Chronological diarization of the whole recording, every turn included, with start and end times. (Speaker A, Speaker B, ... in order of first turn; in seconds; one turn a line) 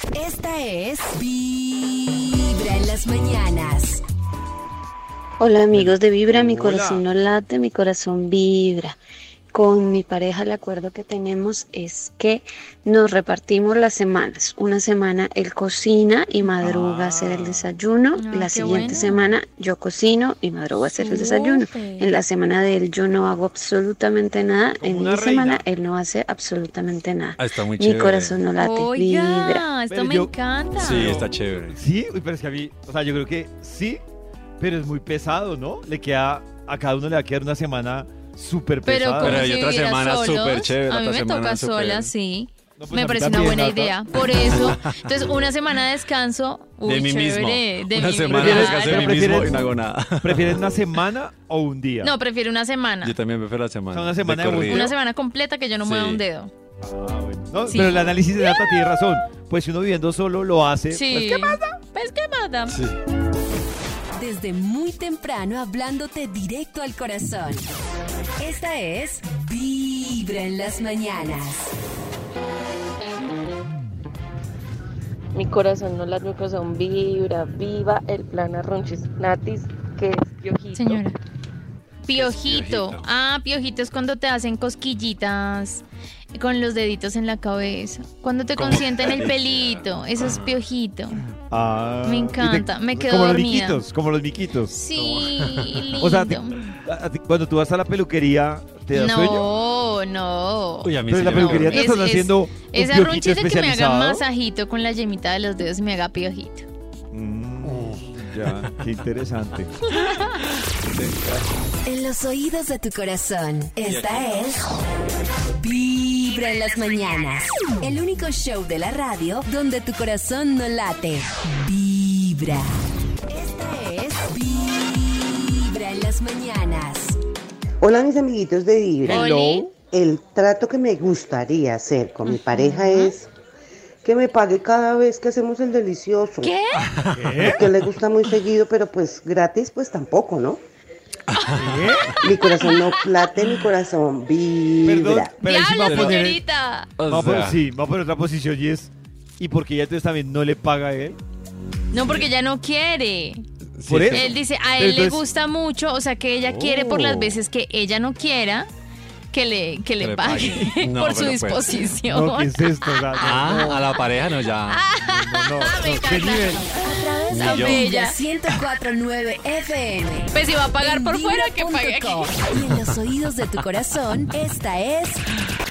Speaker A: 0.1-4.0
Speaker B: 5.4-9.0
Speaker C: 5.7-7.0
Speaker B: 9.5-29.6
Speaker C: 16.6-17.7
Speaker D: 18.2-19.2
Speaker D: 21.0-22.2
Speaker C: 24.8-25.6
Speaker E: 27.4-28.4
Speaker D: 28.6-31.1
Speaker C: 29.9-34.0
Speaker E: 30.8-31.8
Speaker C: 34.6-39.5
Speaker D: 38.8-49.3
Speaker E: 39.2-42.1
Speaker C: 42.8-44.0
Speaker E: 44.3-44.9
Speaker E: 46.8-50.8
Speaker C: 48.2-49.7
Speaker C: 50.2-52.1
Speaker D: 52.0-53.1
Speaker E: 53.0-54.9
Speaker C: 53.9-54.9
Speaker D: 54.7-56.5
Speaker E: 55.8-56.2
Speaker C: 56.8-61.8
Speaker D: 57.7-59.0
Speaker D: 60.9-62.8
Speaker E: 62.7-63.0
Speaker A: 64.1-67.7
Speaker A: 68.4-71.7
Speaker F: 75.3-81.0
Speaker D: 80.7-81.2
Speaker D: 82.0-91.2
Speaker E: 82.1-83.1
Speaker E: 88.5-90.6
Speaker C: 91.5-94.7
Speaker D: 92.0-93.8
Speaker D: 94.7-96.6
Speaker E: 94.9-96.0
Speaker C: 96.0-99.5
Speaker D: 98.9-106.7
Speaker E: 100.8-101.9
Speaker C: 101.0-104.2
Speaker C: 107.1-109.7
Speaker E: 107.9-108.2
Speaker A: 111.8-114.7
Speaker E: 113.8-114.2
Speaker A: 115.5-127.2
Speaker G: 127.8-133.3
Speaker D: 129.0-129.7
Speaker C: 129.1-129.6
Speaker D: 132.3-133.1
Speaker G: 134.0-136.5
Speaker D: 136.4-136.8
Speaker E: 136.9-137.3
Speaker C: 137.1-137.6
Speaker G: 137.3-140.6
Speaker E: 141.3-142.1
Speaker C: 141.6-142.2
Speaker G: 142.2-145.3
Speaker D: 142.3-142.9
Speaker C: 144.8-146.4
Speaker D: 145.4-146.9
Speaker E: 145.8-146.2
Speaker E: 147.0-147.6
Speaker C: 147.1-151.2
Speaker D: 151.9-153.4
Speaker E: 153.8-154.3
Speaker C: 153.9-155.2
Speaker D: 154.1-158.7
Speaker C: 156.4-157.4
Speaker D: 159.3-163.1
Speaker E: 160.0-161.7
Speaker C: 162.1-164.0
Speaker E: 163.1-164.8
Speaker D: 164.7-168.2
Speaker C: 165.0-166.6
Speaker A: 166.8-175.2
Speaker E: 167.3-167.9
Speaker D: 170.3-172.3